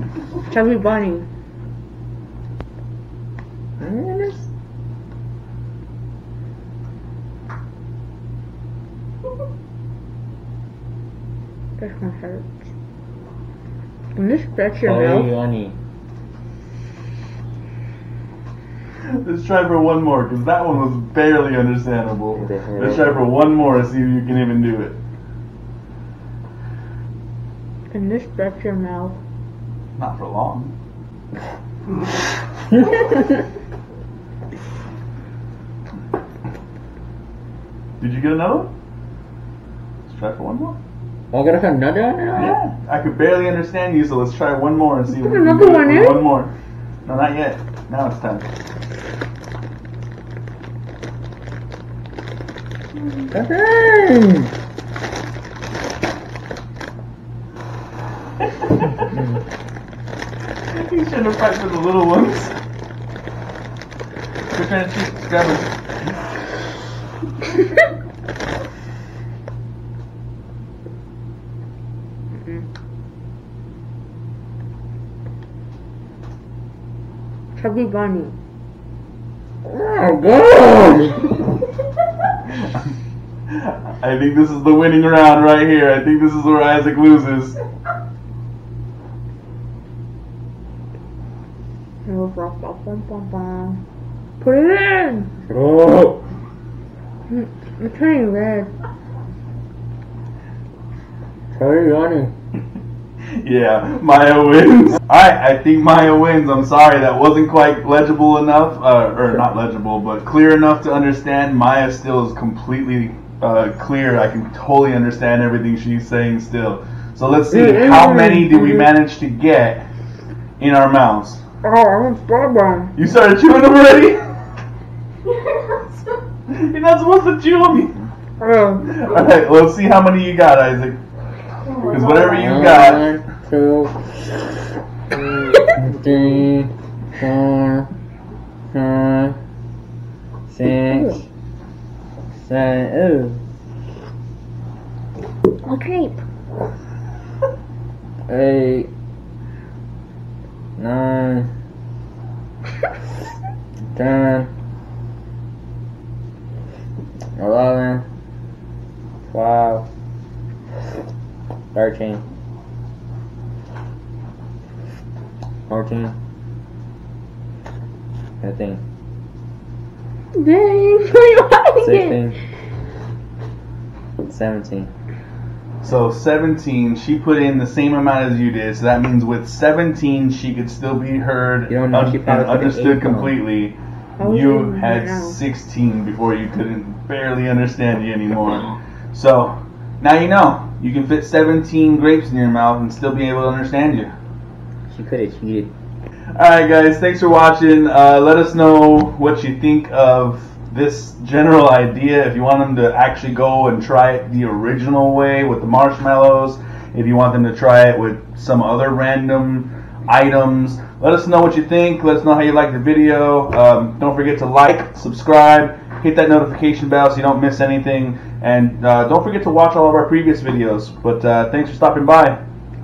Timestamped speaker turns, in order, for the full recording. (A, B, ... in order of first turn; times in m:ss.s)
0:00.5-0:01.3 A
0:03.8-0:04.5 B
0:11.8-0:12.7 A
0:14.2-0:15.3 A
0:14.8-0:15.8 B
0:19.1-0:25.0 C
0:22.4-0:23.2 B
0:27.9-0:29.2 A
0:30.0-0:30.7 C
0:38.0-0:38.7 C
0:40.1-0:40.8 C
0:41.3-0:42.6 B
0:42.3-0:46.5 C
0:45.1-0:46.4 A
0:47.1-0:48.5 C
0:53.3-0:54.5 B
0:58.4-0:59.1 C
1:00.7-1:02.6 C
1:04.5-1:05.8 C
1:12.4-1:12.6 A
1:17.6-1:18.4 A
1:19.6-1:21.4 B
1:22.5-1:22.8 C
1:23.5-1:27.6 C
1:32.1-1:33.8 A
1:34.4-1:35.3 A
1:35.5-1:36.2 B
1:37.3-1:38.7 A
1:41.5-1:42.3 B
1:43.4-1:59.9 C
1:57.8-1:58.8 A
2:00.6-2:01.4 C
2:01.6-2:02.9 A
2:03.0-2:04.2 C
2:06.5-2:08.0 C
2:08.4-2:08.9 A
2:08.8-2:11.0 C
2:11.7-2:12.3 A
2:11.8-2:13.1 C
2:12.3-2:14.3 B
2:15.7-2:17.9 B
2:18.7-2:19.4 B
2:20.5-2:21.3 B
2:22.4-2:23.4 B
2:25.6-2:26.2 A
2:28.3-2:28.9 B
2:30.8-2:31.5 B
2:33.9-2:34.5 B
2:37.4-2:38.1 B
2:39.3-2:39.9 B
2:41.7-2:42.2 B
2:45.7-2:46.2 B
2:48.4-2:48.8 B
2:50.4-2:52.2 A
2:51.8-2:52.4 B
2:54.2-2:54.9 B
2:55.8-3:14.1 C
3:01.7-3:03.4 B
3:04.2-3:05.4 A
3:14.9-3:15.7 B
3:16.4-3:42.4 C